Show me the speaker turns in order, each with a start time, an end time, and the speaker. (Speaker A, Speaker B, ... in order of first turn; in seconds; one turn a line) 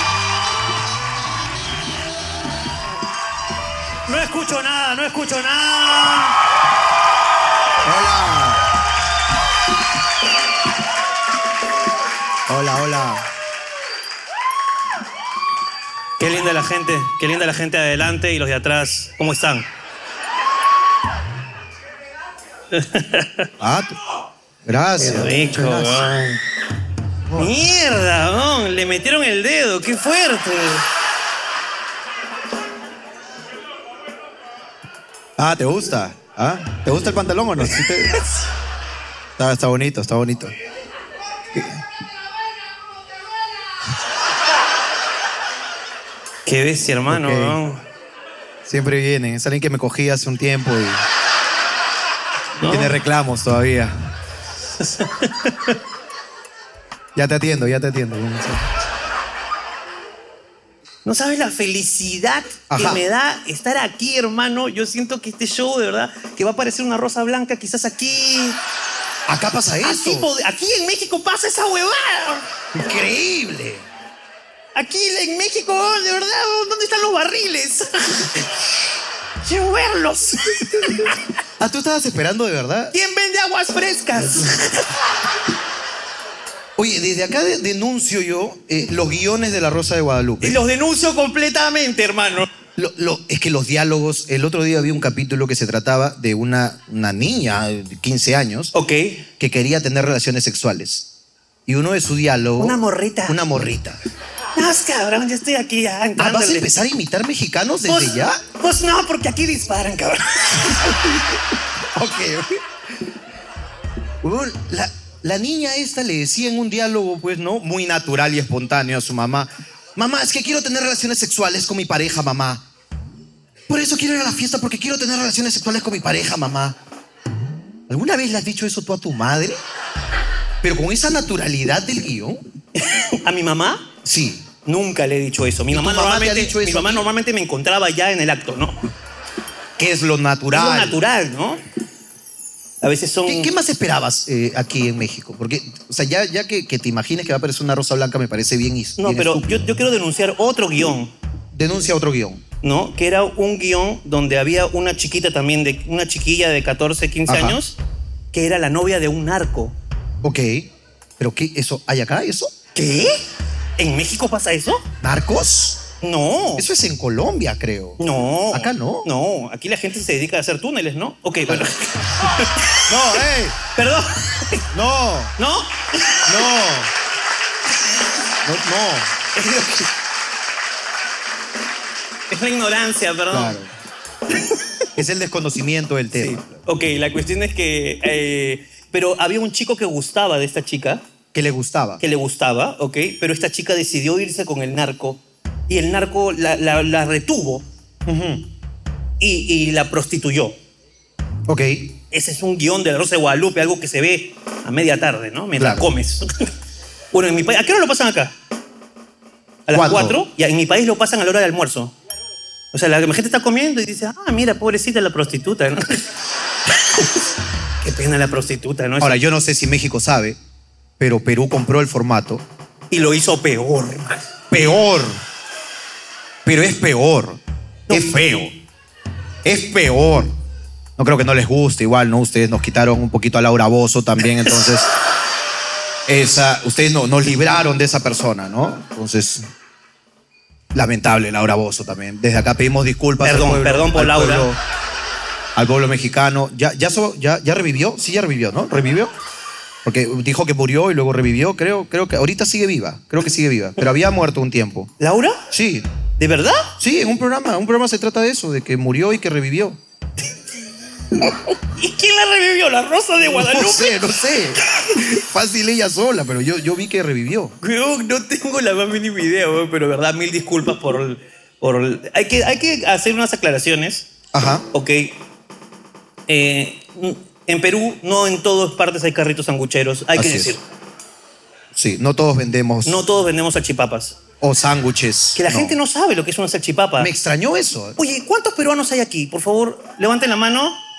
Speaker A: 4.1-6.3
Speaker B: 7.8-8.6
Speaker B: 12.5-13.3
Speaker A: 16.2-19.7
Speaker A: 22.7-23.5
Speaker B: 23.6-24.0
Speaker B: 24.6-26.1
Speaker A: 25.0-26.4
Speaker B: 27.3-27.5
Speaker A: 27.4-30.9
Speaker B: 35.4-38.2
Speaker B: 39.4-40.5
Speaker B: 41.5-41.8
Speaker A: 46.5-47.8
Speaker B: 47.1-47.6
Speaker B: 48.6-51.0
Speaker A: 52.6-52.9
Speaker B: 52.6-54.0
Speaker A: 54.8-55.8
Speaker B: 57.1-58.7
Speaker A: 61.0-68.6
Speaker B: 62.7-63.0
Speaker B: 69.3-70.3
Speaker A: 69.8-72.5
Speaker B: 72.7-73.8
Speaker A: 74.7-78.5
Speaker A: 79.4-81.1
Speaker B: 81.6-82.9
Speaker A: 82.9-84.9
Speaker B: 86.8-90.6
Speaker A: 90.4-92.5
Speaker B: 92.8-98.7
Speaker A: 98.7-99.3
Speaker B: 99.4-101.1
Speaker B: 101.7-104.0
Speaker A: 102.6-103.4
Speaker A: 104.5-106.8
Speaker B: 106.2-108.4
Speaker A: 107.8-110.9
Speaker B: 111.9-112.6
Speaker B: 114.2-122.6
Speaker B: 123.7-126.8
Speaker B: 127.9-129.6
Speaker B: 130.6-132.4
Speaker A: 132.7-133.9
Speaker B: 134.0-134.5
Speaker A: 134.6-138.9
Speaker B: 135.7-137.1
Speaker B: 139.8-141.0
Speaker A: 140.5-141.6
Speaker A: 142.8-143.5
Speaker B: 143.2-149.7
Speaker A: 149.0-151.1
Speaker B: 151.5-152.4
Speaker A: 152.6-157.8
Speaker B: 157.3-157.6
Speaker A: 158.3-159.8
Speaker B: 160.2-162.5
Speaker A: 162.7-163.2
Speaker A: 163.8-164.8
Speaker B: 165.0-165.8
Speaker A: 166.0-166.7
Speaker B: 166.6-169.1
Speaker A: 168.0-172.8
Speaker B: 172.9-173.6
Speaker A: 173.7-174.6
Speaker B: 174.7-175.3
Speaker A: 175.4-175.8
Speaker B: 176.2-176.9
Speaker B: 178.4-179.1
Speaker A: 179.3-179.9
Speaker A: 182.3-183.6
Speaker B: 183.3-183.7
Speaker A: 184.3-184.6
Speaker B: 184.9-186.6
Speaker A: 186.1-191.0
Speaker B: 191.3-192.0
Speaker A: 192.0-197.7
Speaker B: 198.1-198.5
Speaker A: 199.2-200.6
Speaker B: 201.5-201.9
Speaker A: 202.1-206.5
Speaker B: 205.6-205.8
Speaker A: 207.1-208.3
Speaker A: 209.7-211.9
Speaker B: 209.7-210.2
Speaker A: 212.7-216.0
Speaker A: 216.8-217.1
Speaker A: 217.8-219.2
Speaker B: 219.0-220.4
Speaker B: 221.0-222.4
Speaker A: 222.9-224.3
Speaker B: 224.5-225.2
Speaker B: 226.4-228.6
Speaker B: 229.4-230.4
Speaker B: 231.0-234.9
Speaker B: 236.1-239.4
Speaker B: 240.7-244.6
Speaker A: 243.2-244.5
Speaker B: 245.5-249.1
Speaker B: 249.8-254.9
Speaker A: 255.0-255.4
Speaker B: 255.5-255.9
Speaker A: 256.2-256.7
Speaker B: 256.8-259.8
Speaker A: 261.1-264.0
Speaker B: 263.2-267.5
Speaker A: 264.7-265.0
Speaker A: 267.6-274.1
Speaker B: 274.3-274.6
Speaker A: 274.7-275.2
Speaker A: 276.3-280.6
Speaker B: 280.1-280.5
Speaker B: 281.7-283.0
Speaker A: 282.8-284.2
Speaker B: 284.4-285.8
Speaker A: 285.4-287.1
Speaker B: 287.0-288.0
Speaker A: 288.0-290.8